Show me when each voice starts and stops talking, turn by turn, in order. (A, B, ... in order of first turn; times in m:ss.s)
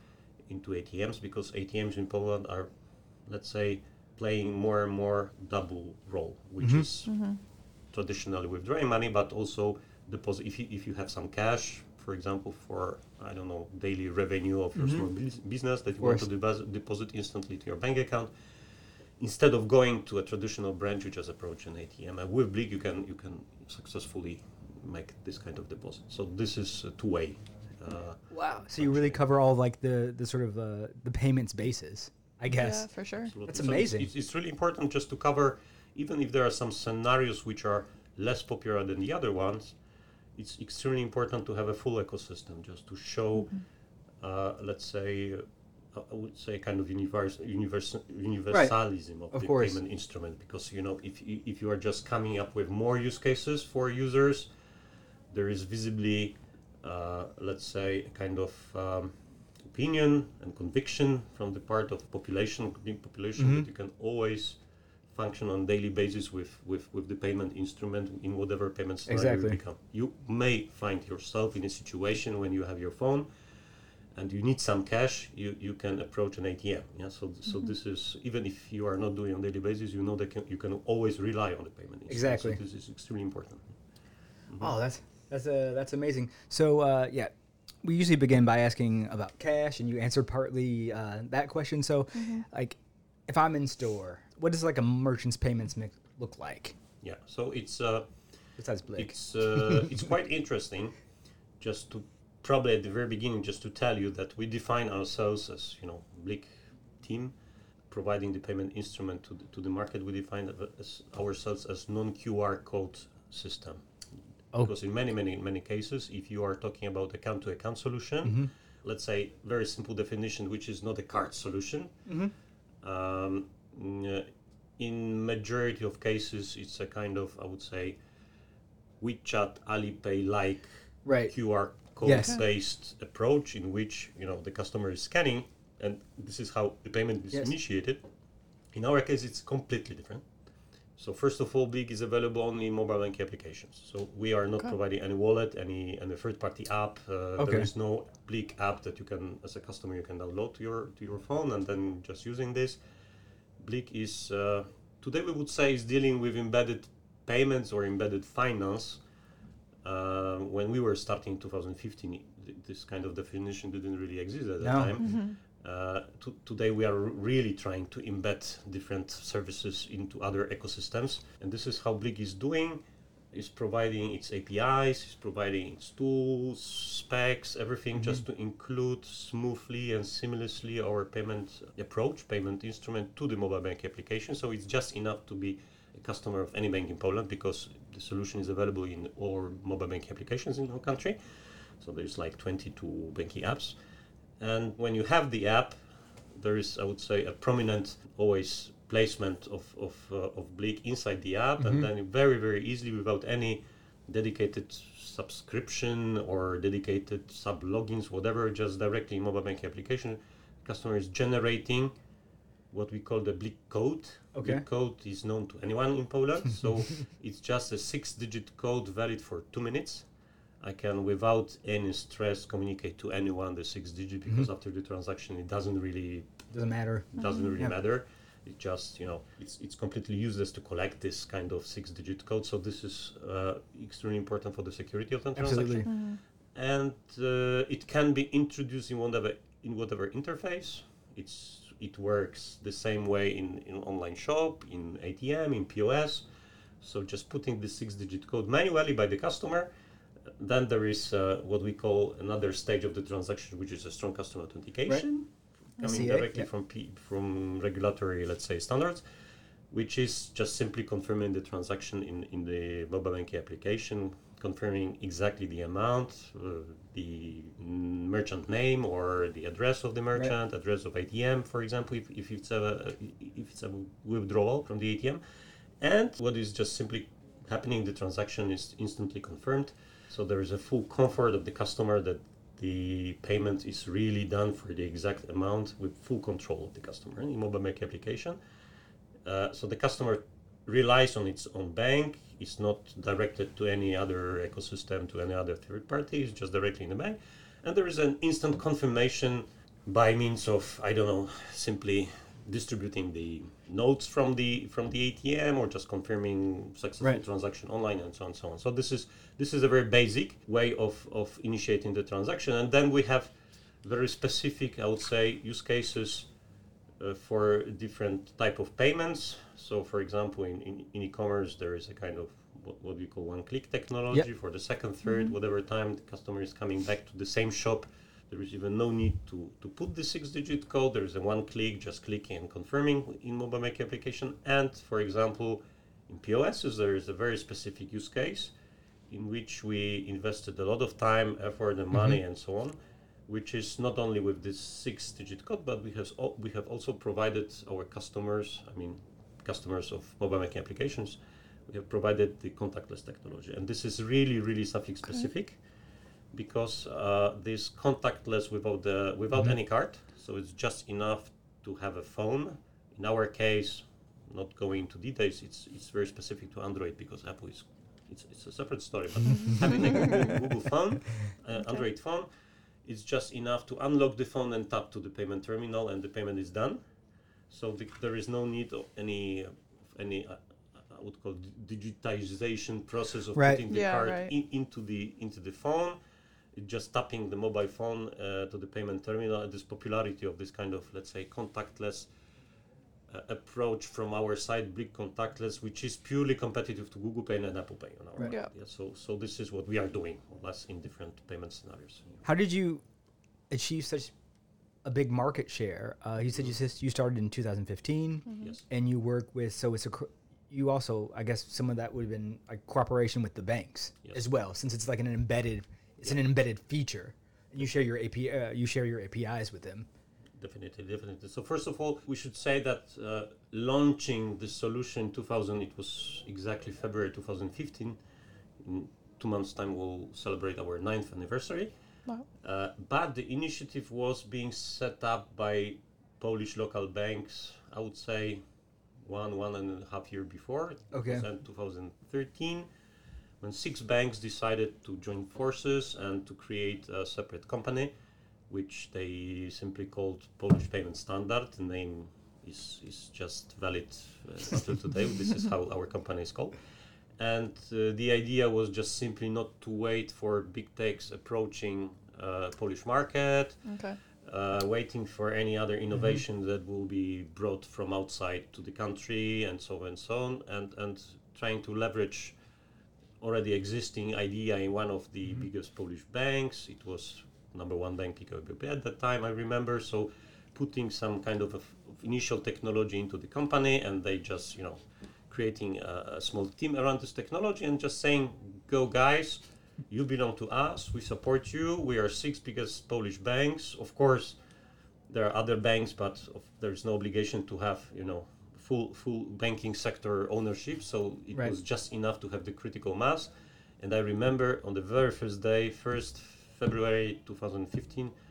0:00.5-0:18.3 A
0:06.6-0:06.9 B
0:07.0-0:07.4 C
0:14.7-0:15.0 B
0:19.2-0:29.2 A
0:28.3-0:34.1 B
0:32.5-0:33.3 C
0:33.2-0:39.8 A
0:40.4-0:43.6 A
0:44.2-0:54.5 A
0:48.5-0:49.8 B
0:55.3-1:04.6 A
1:03.4-1:03.6 B
1:05.1-1:13.3 A
1:09.0-1:09.6 B
1:14.1-1:23.8 A
1:22.1-1:22.6 B
1:24.5-1:24.7 A
1:24.6-1:27.3 B
1:27.8-1:36.7 B
1:32.1-1:32.4 C
1:37.0-1:41.0 A
1:38.6-1:40.0 B
1:41.6-1:47.3 A
1:47.9-1:53.8 A
1:54.6-2:02.1 A
1:58.2-1:58.5 B
2:02.0-2:02.3 B
2:02.8-2:08.0 A
2:09.0-2:18.0 A
2:11.0-2:12.4 B
2:18.7-2:20.2 A
2:21.0-2:32.8 A
2:27.4-2:27.7 B
2:33.6-2:39.0 A
2:39.8-3:13.8 A
2:44.6-2:44.9 B
2:45.0-2:45.4 C
3:14.4-3:31.9 A
3:21.6-3:21.9 B
3:32.7-3:40.1 A
3:34.3-3:34.6 B
3:40.6-3:46.4 A
3:46.5-3:47.7 B
3:47.2-3:56.0 A
3:47.2-3:47.5 C
3:55.4-3:55.9 B
3:55.8-3:56.2 C
3:56.5-4:06.2 A
4:06.8-4:09.7 A
4:10.4-4:19.0 A
4:15.8-4:16.5 B
4:19.7-4:35.2 A
4:35.8-4:48.4 A
4:49.2-5:16.3 A
5:17.0-5:38.5 A
5:25.0-5:25.3 C
5:39.1-5:42.8 A
5:43.3-5:55.6 A
5:56.3-6:12.3 A
6:09.3-6:10.1 C
6:11.6-6:11.8 C
6:12.8-6:16.8 A
6:17.5-6:26.0 A
6:23.3-6:23.6 B
6:23.7-6:24.3 C
6:26.6-6:32.1 A
6:33.1-6:42.2 A
6:42.2-6:42.8 B
6:43.5-6:44.1 B
6:44.8-6:59.9 B
6:48.2-6:48.5 C
7:00.4-7:08.0 A
7:08.6-7:11.7 A
7:12.4-7:18.4 A
7:19.0-7:22.7 A
7:20.9-7:21.2 B
7:23.4-7:27.9 A
7:28.5-7:36.6 A
7:37.2-7:43.6 A
7:43.6-7:44.0 C
7:44.2-7:52.4 A
7:53.2-8:14.4 A
8:15.1-8:28.1 A